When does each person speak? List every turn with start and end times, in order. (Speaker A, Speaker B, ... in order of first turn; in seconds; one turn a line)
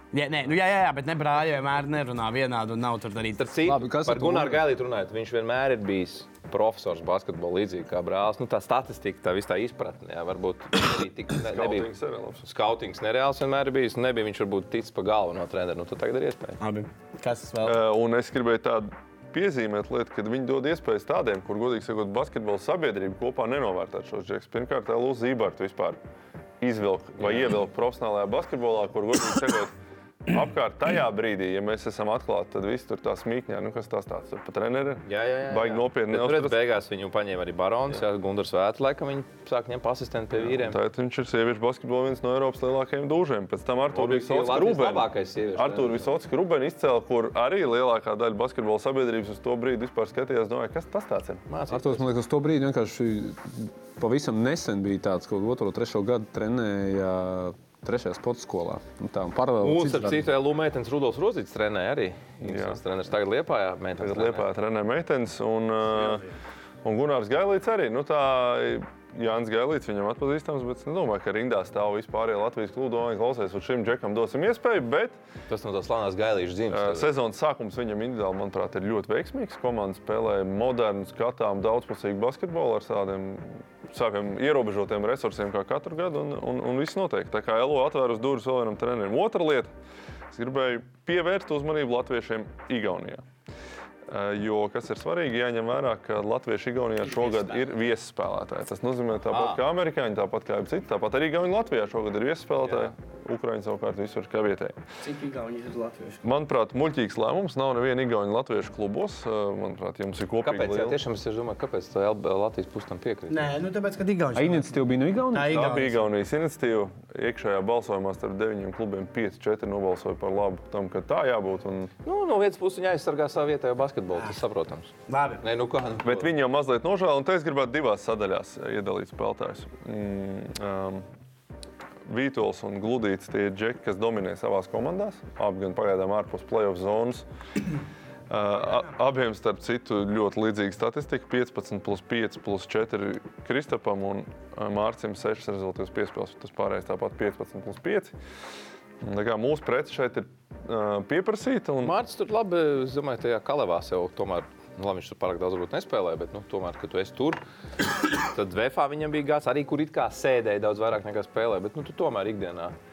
Speaker A: 0.1-3.4
Speaker B: 3.4-11.9
Speaker C: 3.6-4.7
Speaker D: 11.4-12.4
Speaker B: 12.4-16.6
Speaker A: 16.6-17.8
Speaker D: 17.6-26.0
Speaker D: 26.6-29.7
Speaker B: 27.2-27.5
Speaker D: 30.3-36.6
Speaker B: 35.1-40.8
Speaker D: 40.4-51.4
Speaker B: 43.9-46.1
Speaker B: 51.5-52.1
Speaker C: 51.7-60.3
Speaker B: 59.6-64.5
Speaker D: 62.4-62.8
Speaker D: 64.0-66.2
Speaker D: 66.8-75.2
Speaker B: 75.5-77.1
Speaker D: 76.7-89.7
Speaker D: 90.3-93.2
Speaker D: 94.1-104.8
Speaker B: 97.1-97.7
Speaker B: 99.3-99.6
Speaker B: 102.6-102.9
Speaker A: 105.0-106.2
Speaker D: 106.2-111.0
Speaker B: 110.4-113.5
Speaker A: 113.3-114.8
Speaker C: 114.3-115.8
Speaker A: 115.3-116.0
Speaker D: 115.5-121.9
Speaker B: 122.0-126.3
Speaker A: 125.1-125.4
Speaker D: 126.0-131.0
Speaker D: 132.1-137.3
Speaker D: 138.3-148.1
Speaker D: 149.0-152.0
Speaker B: 151.8-157.4
Speaker B: 158.2-162.8